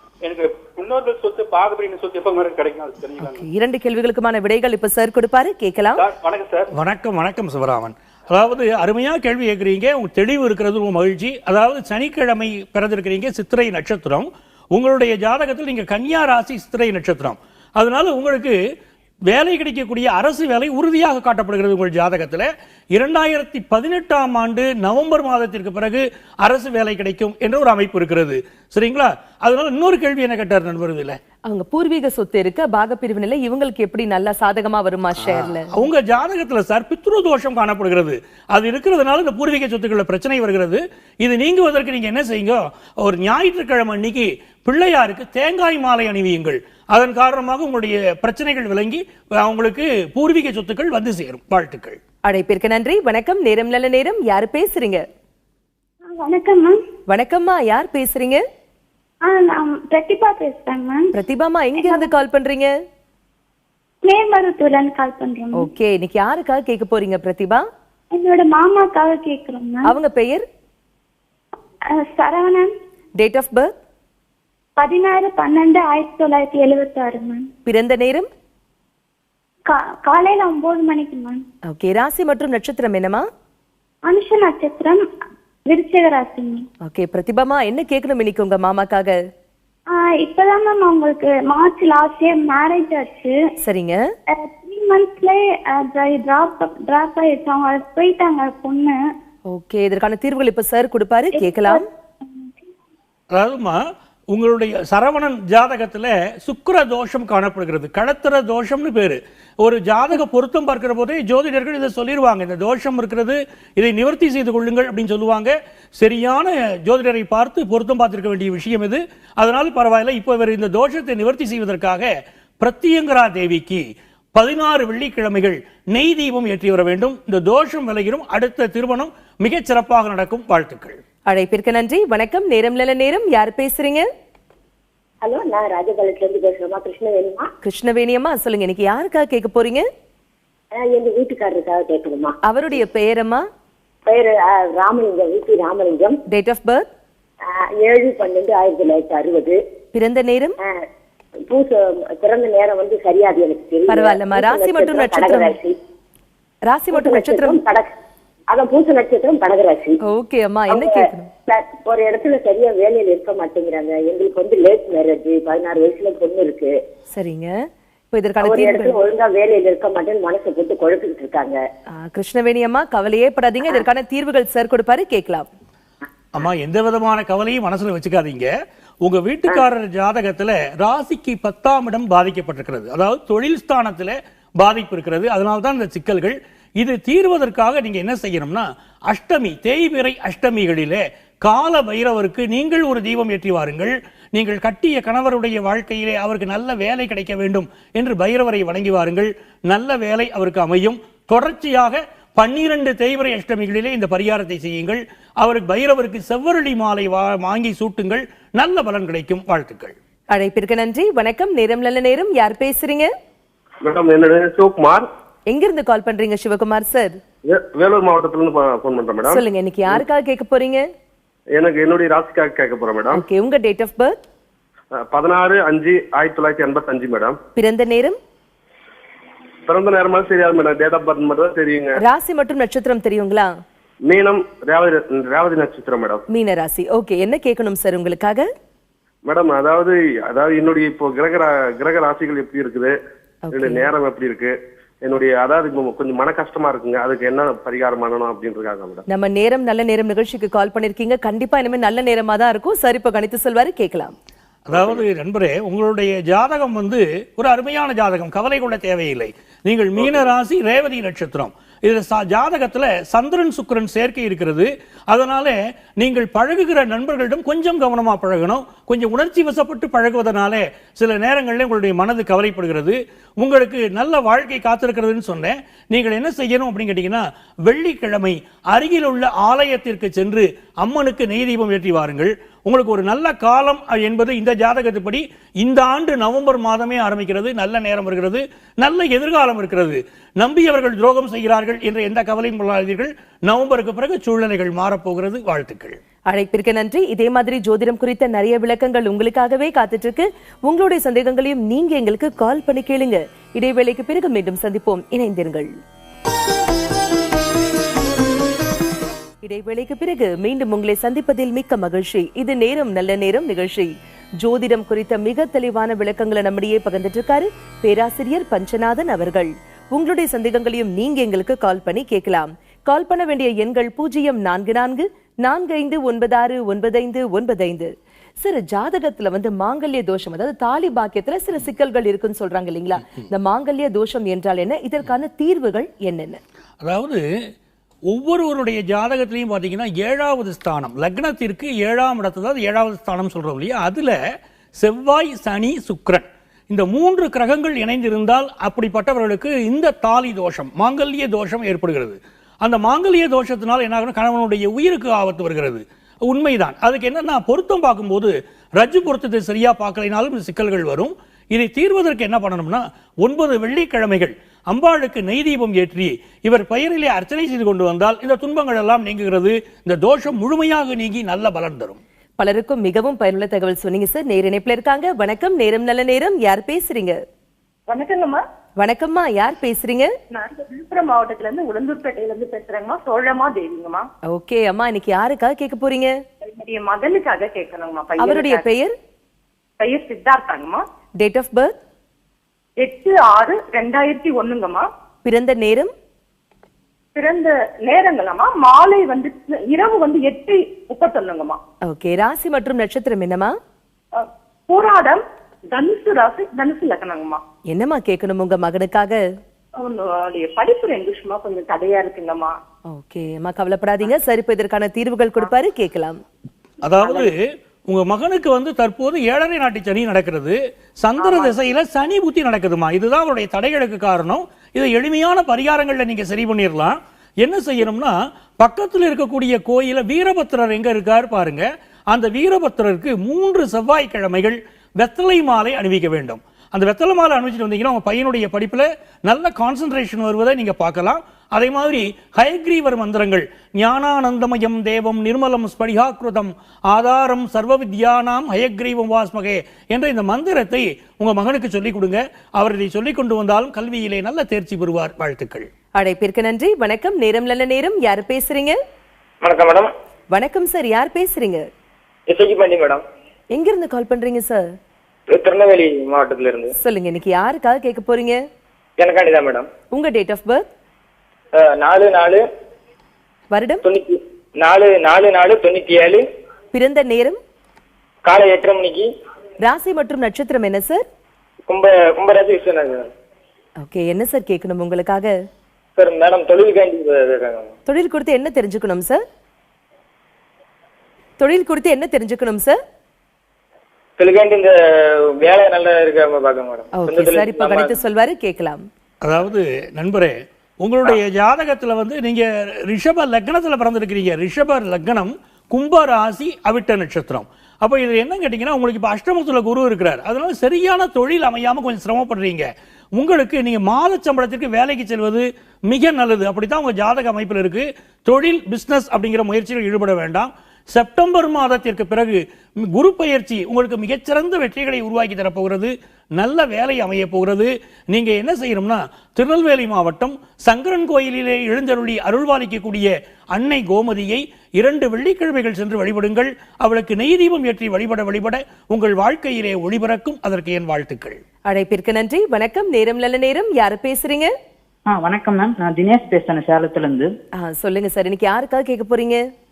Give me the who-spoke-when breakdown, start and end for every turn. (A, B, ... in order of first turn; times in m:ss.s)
0:00.2-0:03.4 A
0:03.2-0:06.0 B
0:06.0-0:06.7 A
0:06.7-0:18.6 C
0:19.3-0:31.2 C
0:31.5-0:35.7 B
0:35.2-0:52.0 C
0:52.2-0:55.0 B
0:56.1-0:56.8 D
0:57.1-0:58.4 B
0:59.3-1:01.1 D
1:01.1-1:02.7 B
1:01.8-1:02.1 D
1:04.0-1:05.7 D
1:05.6-1:07.7 B
1:08.1-1:10.0 D
1:09.9-1:10.4 B
1:11.9-1:12.7 D
1:13.2-1:13.7 B
1:14.8-1:17.5 D
1:17.7-1:18.3 B
1:19.7-1:21.4 D
1:21.7-1:23.3 B
1:24.1-1:25.0 D
1:25.7-1:26.6 D
1:26.8-1:29.2 B
1:29.9-1:33.4 D
1:33.6-1:34.0 B
1:34.3-1:39.0 D
1:39.5-1:41.9 B
1:41.5-1:42.4 D
1:43.3-1:43.8 C
1:44.3-2:02.1 C
2:02.6-2:11.0 C
2:11.3-2:14.1 B
2:15.2-2:17.5 E
2:17.6-2:19.9 B
2:20.8-2:22.4 E
2:22.4-2:23.5 B
2:24.1-2:26.2 E
2:26.3-2:26.9 B
2:27.5-2:29.6 E
2:29.9-2:30.6 B
2:31.5-2:35.8 E
2:33.9-2:35.6 B
2:36.7-2:37.6 B
2:36.9-2:37.9 E
2:38.5-2:40.0 E
2:40.0-2:41.3 B
2:40.7-2:46.8 E
2:47.1-2:47.5 B
2:48.1-2:49.0 B
2:48.4-2:51.6 E
2:51.9-2:55.5 B
2:56.3-2:58.5 C
2:59.0-3:30.0 C
3:30.3-3:33.1 B
3:33.8-3:35.0 F
3:35.5-3:37.2 B
3:37.5-3:39.4 F
3:39.3-3:40.8 B
3:41.6-3:43.2 F
3:43.1-3:44.2 B
3:45.0-3:47.4 F
3:47.6-3:48.2 B
3:49.7-3:52.0 F
3:52.0-3:53.5 B
3:54.1-3:56.2 F
3:56.3-3:58.5 B
3:59.2-4:03.0 F
4:03.5-4:03.9 B
4:03.5-4:09.0 F
4:09.1-4:14.1 B
4:14.7-4:56.0 C
4:14.7-4:15.0 F
4:56.3-5:05.7 B
5:09.4-5:27.9 B
5:28.4-5:36.4 B
5:36.8-5:37.2 C
5:38.1-5:44.2 C
5:44.8-6:12.0 C
6:12.4-6:17.2 B
6:17.9-6:18.4 G
6:18.8-6:20.1 B
6:20.3-6:24.1 G
6:24.3-6:26.1 B
6:26.4-6:28.7 G
6:28.2-6:28.9 B
6:29.8-6:30.8 G
6:31.2-6:31.8 B
6:32.8-6:34.9 G
6:35.2-6:35.9 B
6:37.2-6:41.6 G
6:41.9-6:43.6 B
6:44.2-6:47.4 G
6:47.7-6:49.2 B
6:49.8-6:52.6 G
6:52.9-6:56.2 B
6:56.8-7:35.7 C
7:01.2-7:01.5 G
7:36.0-7:38.8 B
7:39.4-7:39.9 H
7:40.3-7:41.7 B
7:42.3-7:43.0 H
7:43.5-7:44.7 B
7:45.3-7:46.7 H
7:46.8-7:48.4 B
7:49.0-7:49.7 H
7:49.9-7:50.7 B
7:51.6-7:52.4 H
7:53.5-7:53.8 B
7:53.8-7:56.2 H
7:56.7-7:57.4 B
7:58.2-7:59.1 H
7:59.6-8:01.0 B
8:01.7-8:03.1 H
8:03.8-8:05.3 B
8:06.0-8:07.7 H
8:07.9-8:09.2 B
8:11.4-8:12.8 B
8:14.2-8:18.0 H
8:16.9-8:18.8 B
8:19.2-9:01.4 C
9:01.7-9:04.5 B
9:05.1-9:07.3 I
9:07.6-9:09.4 B